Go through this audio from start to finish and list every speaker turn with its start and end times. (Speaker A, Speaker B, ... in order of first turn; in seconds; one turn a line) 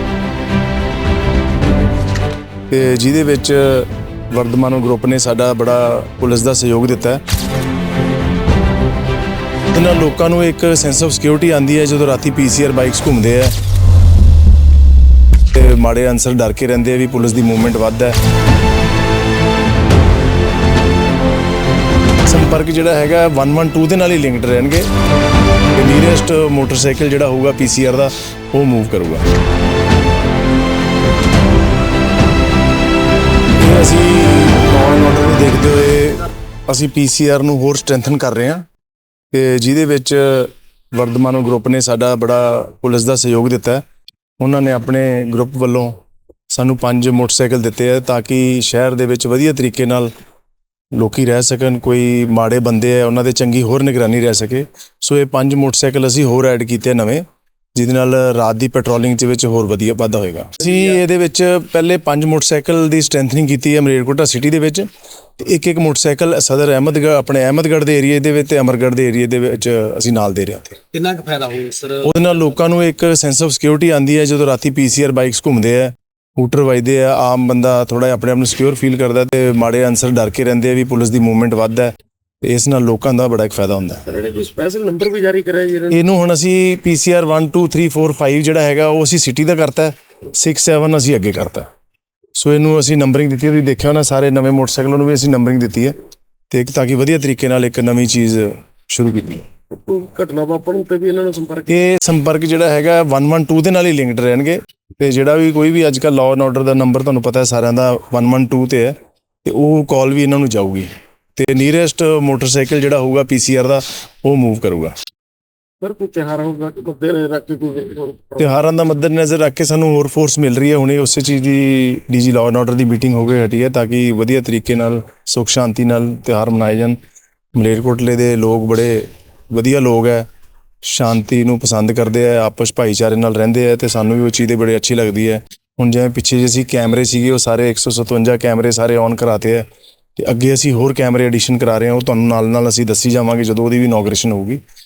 Speaker A: 2.7-7.2
Speaker A: 9.7-13.5
Speaker A: 15.5-18.2
Speaker A: 22.2-24.9
Speaker A: 25.7-29.3
Speaker A: 33.6-38.6
Speaker A: 39.3-43.8
Speaker A: 44.4-45.9
Speaker A: 46.5-50.1
Speaker A: 50.9-57.2
Speaker A: 57.7-71.0
Speaker B: 71.0-71.9
Speaker A: 71.9-81.9
Speaker A: 82.4-84.1
Speaker B: 84.1-86.0
Speaker A: 85.9-91.7
Speaker A: 92.3-95.9
Speaker A: 96.5-99.5
Speaker B: 99.7-101.8
Speaker A: 101.7-114.9
Speaker B: 115.8-118.5
Speaker A: 118.4-127.0
Speaker A: 127.5-130.3
Speaker A: 130.8-144.6